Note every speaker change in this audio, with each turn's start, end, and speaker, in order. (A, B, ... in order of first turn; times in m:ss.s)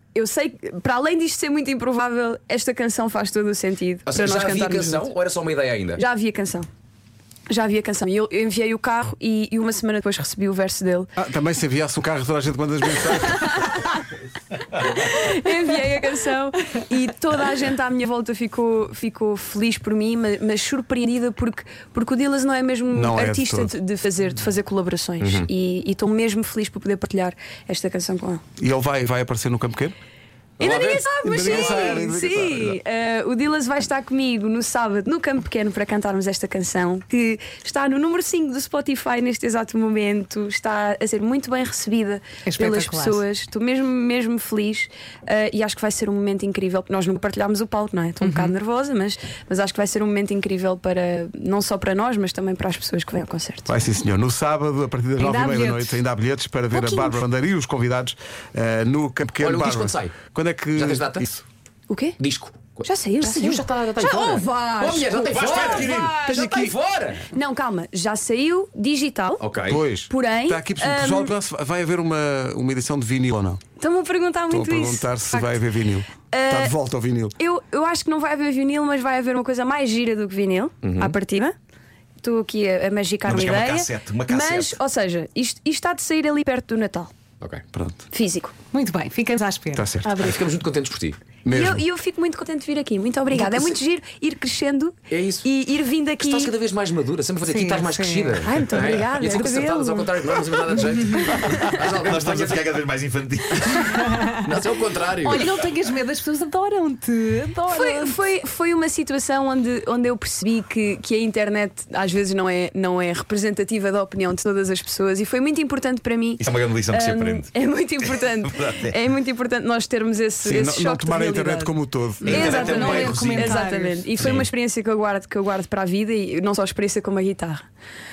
0:00.1-0:05.1 A
0:04.1-0:06.0 B
0:06.0-0:06.7 A
0:07.5-0:11.1 A
0:11.2-0:13.6 C
0:13.3-0:14.0 A
0:14.7-0:28.4 A
0:22.9-0:23.7 C
0:25.2-0:25.5 B
0:28.6-0:29.9 C
0:30.6-0:32.0 B
0:30.6-0:53.7 A
0:31.2-0:32.8 C
0:42.4-0:43.2 D
0:48.2-0:48.6 D
0:53.7-1:01.4 C
0:55.2-0:55.9 D
0:56.7-0:57.2 A
0:59.4-1:00.2 B
1:00.7-1:01.3 B
1:01.9-1:02.2 A
1:02.2-1:07.3 B
1:02.8-1:05.9 A
1:05.3-1:06.2 E
1:05.6-1:06.7 C
1:07.3-1:11.3 A
1:09.4-1:09.8 B
1:09.7-1:13.6 C
1:13.8-1:15.6 A
1:14.5-1:17.3 C
1:16.3-1:16.7 A
1:17.4-1:21.6 A
1:20.8-1:21.2 B
1:22.2-1:27.1 A
1:23.2-1:24.8 E
1:27.7-1:28.0 C
1:28.1-1:28.5 A
1:28.7-1:30.0 D
1:29.7-1:30.2 C
1:30.0-1:30.4 A
1:30.2-1:31.2 B
1:31.4-1:31.8 C
1:31.5-1:36.5 A
1:33.4-1:33.7 B
1:35.1-1:35.5 B
1:36.2-1:42.7 B
1:37.5-1:38.4 D
1:38.4-1:40.7 A
1:41.9-1:44.1 E
1:43.9-1:44.3 D
1:44.3-1:45.5 B
1:45.1-1:48.2 D
1:47.7-2:01.7 A
1:56.4-1:59.0 E
2:00.4-2:02.6 C
2:02.2-2:03.6 E
2:02.2-2:04.1 D
2:02.3-2:07.6 A
2:04.2-2:04.5 E